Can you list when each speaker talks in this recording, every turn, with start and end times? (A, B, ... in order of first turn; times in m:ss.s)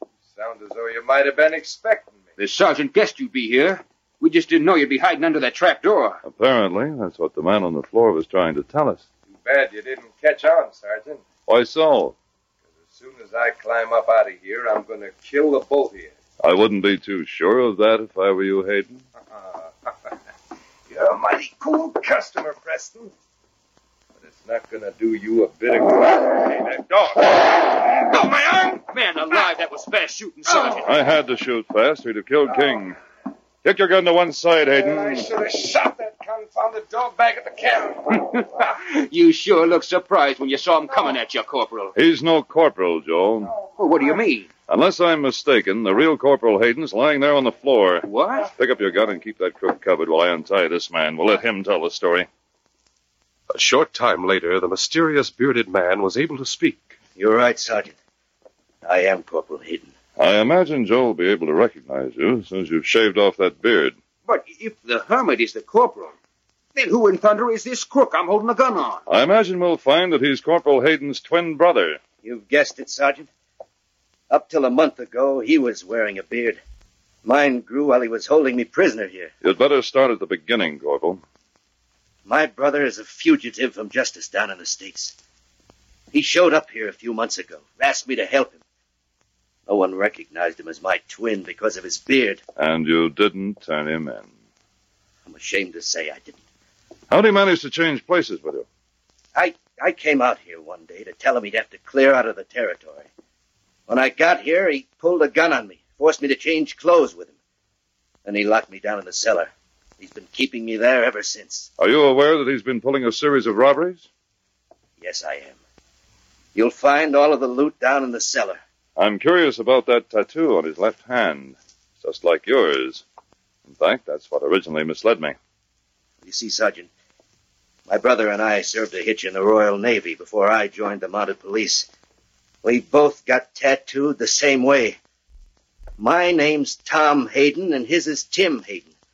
0:00.3-0:02.3 A
0:02.4-0:06.2 B
0:06.2-0:09.1 C
0:09.3-0:11.3 A
0:11.5-0:12.2 C
0:12.8-0:16.2 A
0:16.4-0:19.0 C
0:19.3-0:19.9 A
0:20.9-0:23.1 A
0:24.2-0:28.6 A
0:28.6-0:31.0 B
0:30.8-0:33.0 C
0:33.6-0:35.3 C
0:34.7-0:38.1 A
0:38.1-0:41.9 B
0:42.0-0:43.5 C
0:43.7-0:44.5 B
0:44.7-0:52.3 C
0:48.0-0:48.5 B
0:53.5-0:57.0 D
0:57.2-0:58.0 E
0:58.8-0:59.9 E
1:00.2-1:04.0 C
1:04.2-1:06.2 B
1:06.8-1:09.0 B
1:09.1-1:12.0 C
1:12.2-1:13.3 E
1:14.3-1:16.6 E
1:17.2-1:19.3 E
1:19.4-1:21.2 C
1:22.3-1:25.1 E
1:26.1-1:28.6 E
1:29.7-1:32.4 E
1:32.6-1:34.3 C
1:35.3-1:36.4 E
1:37.1-1:38.7 C
1:39.4-1:43.1 E
1:43.9-1:47.3 E
1:48.2-1:51.7 E
1:51.8-1:54.1 C
1:55.0-1:55.6 E
1:56.6-1:58.6 E
1:59.0-2:03.0 C
2:03.7-2:05.4 C
2:06.2-2:06.9 E
2:07.9-2:11.9 E
2:12.6-2:15.0 E
2:16.0-2:18.9 E